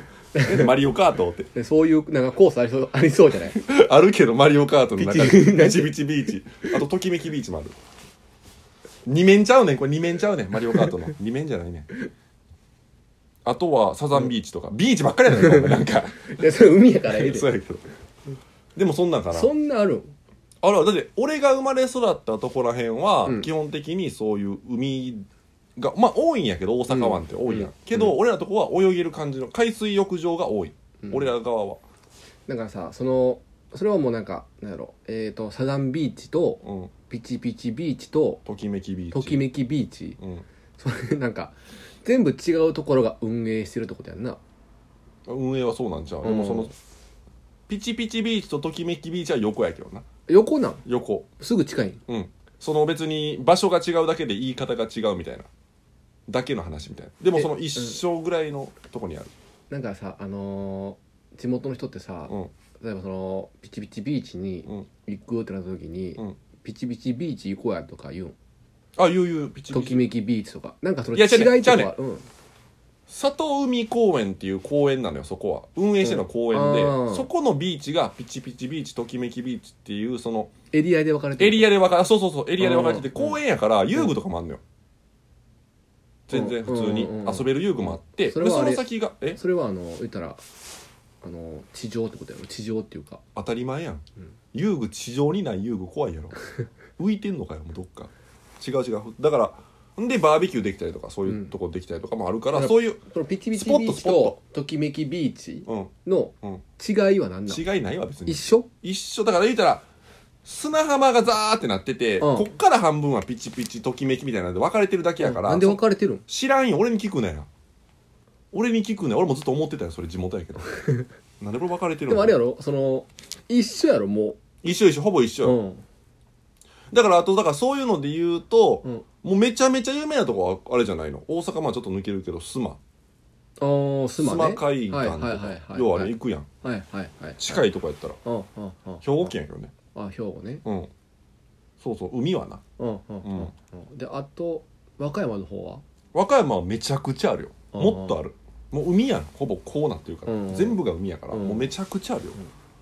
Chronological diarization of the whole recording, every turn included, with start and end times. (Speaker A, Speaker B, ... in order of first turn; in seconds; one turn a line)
Speaker A: 0.3-0.7
Speaker B: 0.4-1.5
Speaker A: 1.5-3.6
Speaker B: 3.5-7.8
Speaker A: 5.0-6.0
Speaker B: 9.1-11.9
Speaker B: 13.4-16.4
Speaker A: 15.3-17.5
Speaker B: 17.1-17.8
Speaker B: 18.8-19.5
Speaker A: 19.3-20.1
Speaker B: 20.6-25.3
Speaker B: 25.8-31.8
Speaker A: 26.9-27.7
Speaker A: 31.0-31.3
Speaker A: 32.5-38.4
Speaker B: 36.6-36.9
Speaker B: 38.5-39.5
Speaker A: 39.1-40.2
Speaker B: 40.2-40.5
Speaker A: 40.8-44.4
Speaker B: 45.3-46.7
Speaker A: 46.2-46.7
Speaker B: 47.7-50.0
Speaker A: 50.3-50.8
Speaker B: 50.9-51.3
Speaker A: 51.4-52.0
Speaker B: 52.1-55.5
Speaker B: 56.3-59.3
Speaker A: 57.4-58.0
Speaker A: 59.7-68.4
Speaker B: 69.0-70.0
Speaker A: 69.7-72.3
Speaker B: 71.1-71.9
Speaker B: 73.1-80.5
Speaker A: 76.0-77.3
Speaker A: 80.7-81.7
Speaker B: 81.4-84.6
Speaker A: 82.6-83.4
Speaker B: 86.3-89.4
Speaker A: 86.3-90.4
Speaker A: 91.2-93.2
Speaker B: 93.3-96.4
Speaker B: 97.0-103.0
Speaker A: 101.3-101.5
Speaker A: 102.5-107.6
Speaker B: 103.5-104.4
Speaker B: 105.7-105.9
Speaker B: 107.5-109.8
Speaker A: 108.3-108.7
Speaker B: 110.4-117.5
Speaker A: 112.2-112.5
Speaker A: 115.2-116.2
Speaker B: 118.5-120.7
Speaker B: 121.4-122.4
Speaker A: 122.1-124.4
Speaker B: 124.6-125.6
Speaker A: 125.4-125.8
Speaker B: 126.9-132.8
Speaker A: 133.6-137.6
Speaker B: 134.2-136.5
Speaker B: 137.4-138.2
Speaker A: 138.2-139.3
Speaker B: 139.0-139.7
Speaker A: 139.9-140.6
Speaker B: 140.7-140.9
Speaker B: 141.8-142.6
Speaker A: 142.8-145.8
Speaker B: 143.2-143.5
Speaker B: 146.1-152.4
Speaker A: 147.7-148.2
Speaker A: 150.3-150.8
Speaker A: 151.3-151.7